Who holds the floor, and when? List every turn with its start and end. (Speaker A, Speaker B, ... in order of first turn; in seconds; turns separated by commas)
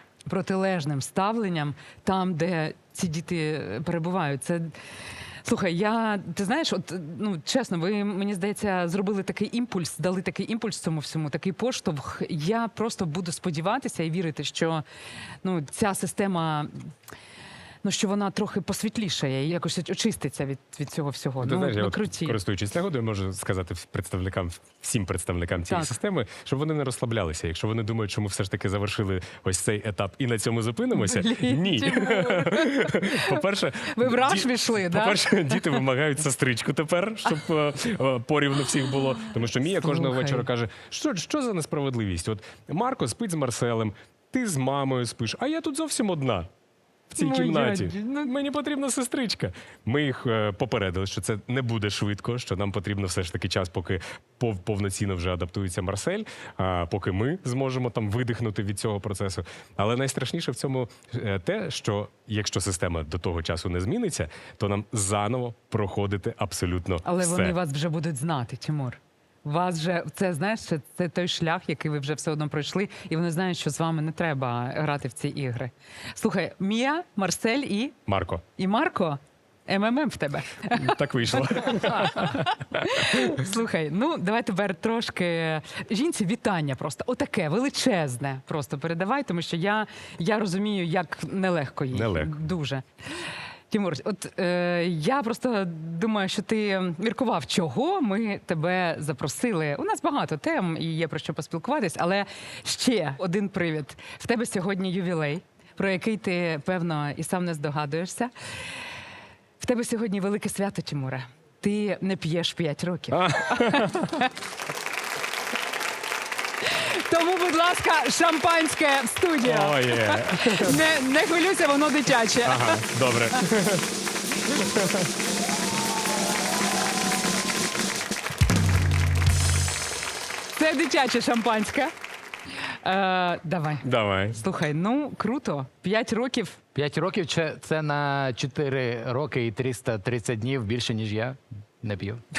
Speaker A: 0.3-4.7, Speaker A: 5.4-14.8, Speaker A: 15.4-16.9, Speaker A: 17.8-22.4, Speaker B: 21.4-46.5, Speaker A: 25.6-25.9, Speaker A: 30.9-33.4, Speaker A: 33.9-35.8, Speaker A: 39.8-40.4, Speaker B: 47.1-67.5, Speaker A: 47.1-48.3, Speaker A: 67.0-78.0, Speaker B: 78.1-78.4, Speaker A: 78.6-92.8, Speaker B: 80.7-83.3, Speaker B: 91.9-92.4, Speaker A: 93.7-108.3, Speaker A: 109.6-114.3, Speaker B: 113.1-114.2, Speaker A: 116.6-123.4, Speaker B: 119.4-120.8, Speaker B: 122.4-123.9, Speaker B: 124.4-125.1, Speaker A: 130.6-131.9, Speaker A: 132.8-136.6, Speaker B: 133.8-134.4, Speaker C: 136.7-142.2